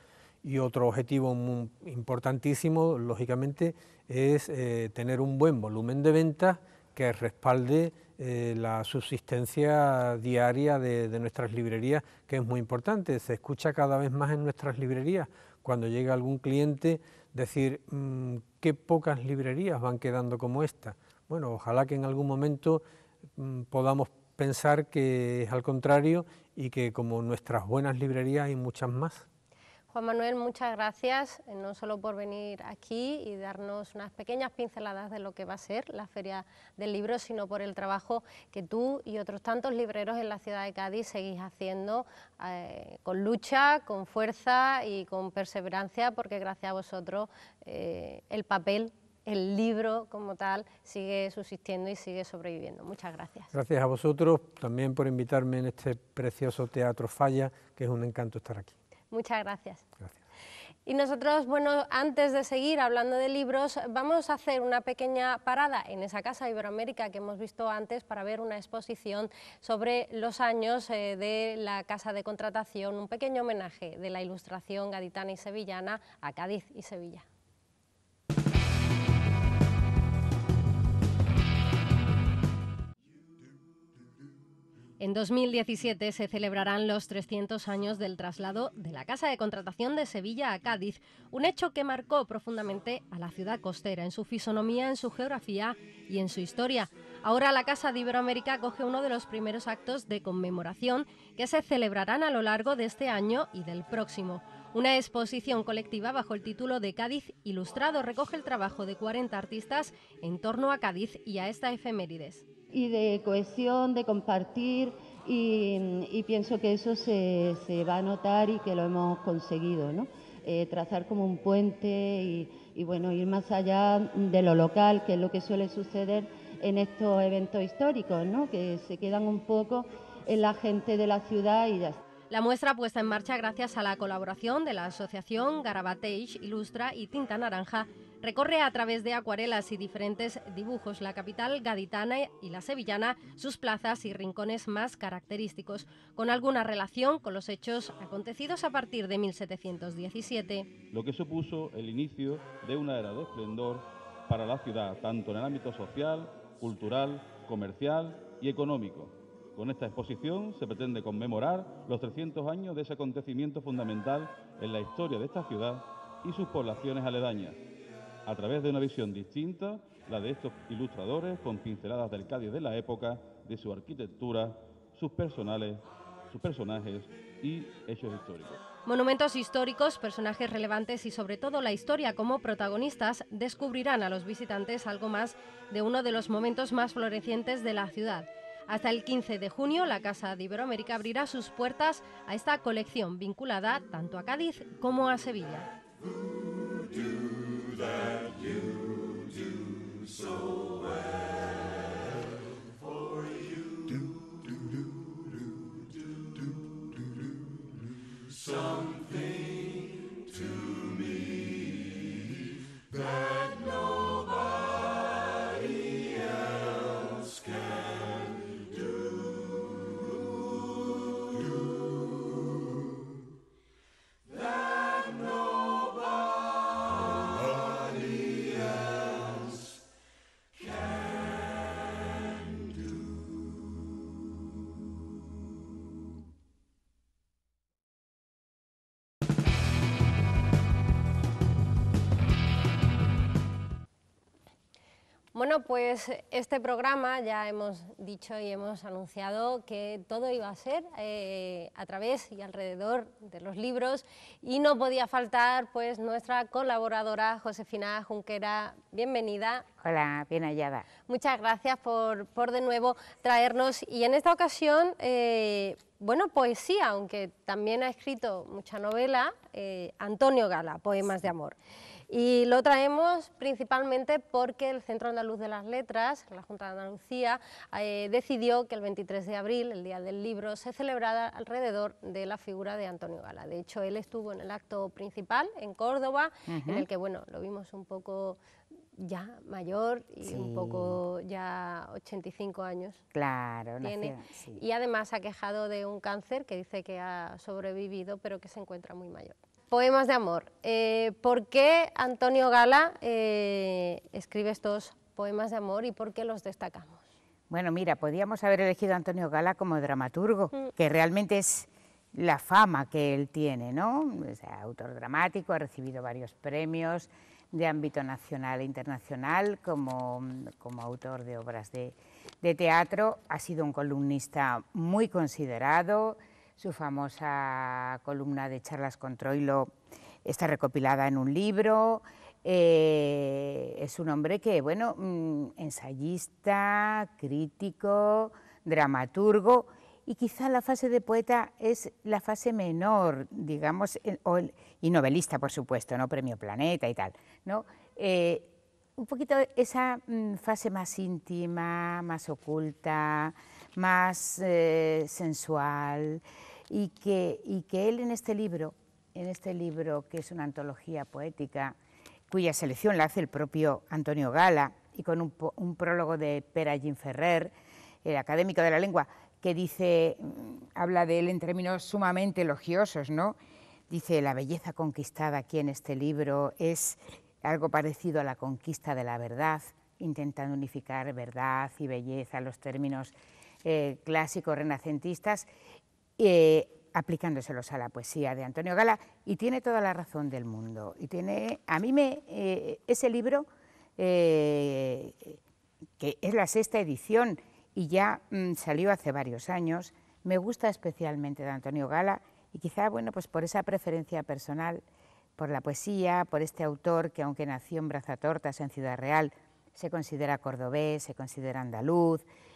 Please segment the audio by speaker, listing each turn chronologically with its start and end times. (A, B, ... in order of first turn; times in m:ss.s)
0:00.4-0:22.8 A
0:23.4-0:29.2 A
0:29.9-0:53.5 B
0:53.5-0:58.7 A
0:59.1-0:59.8 B
1:00.8-1:17.3 B
1:25.0-1:52.4 B
1:52.7-2:12.0 C
2:12.3-2:30.7 B
2:30.9-2:47.6 D
2:48.2-2:58.6 D
2:58.8-3:15.7 B
4:05.3-4:19.6 B
4:19.8-4:20.9 E
4:21.1-4:31.6 B
4:32.1-4:48.4 B
4:46.5-4:46.9 E
4:49.0-4:53.0 B
4:50.2-4:51.0 E
4:53.1-4:54.6 E
4:53.8-5:07.0 B
5:07.5-6:01.8 E
6:02.3-6:13.4 E
6:13.9-6:25.5 E
6:26.2-6:35.4 E
6:36.0-6:44.8 E
6:45.4-6:52.2 E